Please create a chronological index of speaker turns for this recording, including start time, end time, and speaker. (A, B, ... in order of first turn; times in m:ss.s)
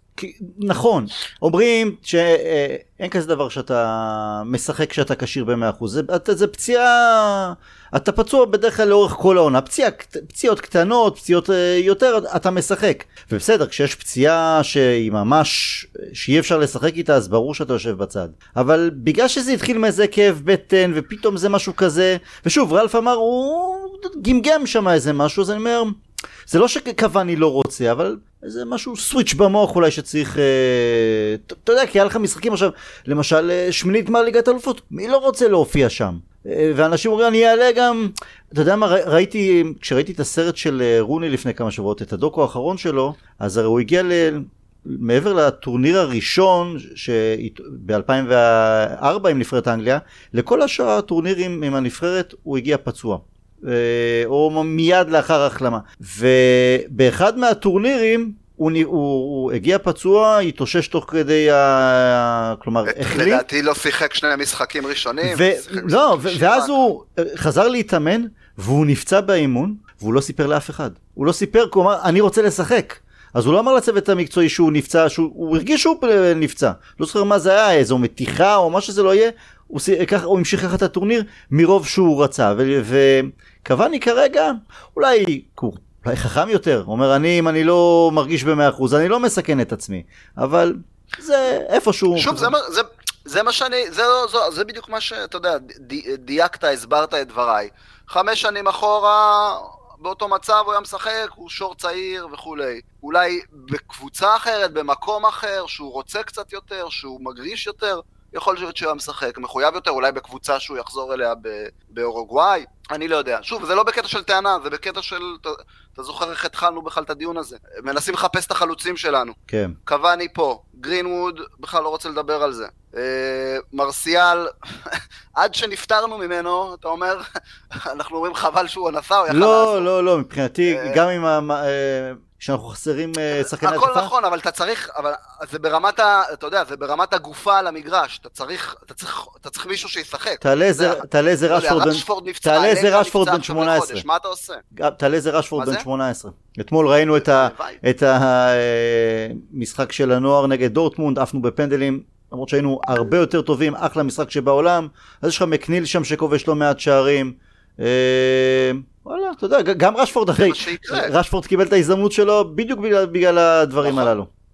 0:00.2-1:03.4 A
1:02.8-1:06.7 B
1:05.2-1:32.5 A
1:32.2-2:07.2 B
1:59.5-1:59.7 A
2:07.7-2:09.9 B
2:09.3-2:14.1 A
2:10.6-2:11.0 B
2:13.3-2:24.6 B
2:20.4-2:24.0 A
2:24.7-2:44.3 A
2:25.6-2:25.8 B
2:27.1-2:27.8 B
2:40.4-2:41.1 B
2:43.8-2:44.1 B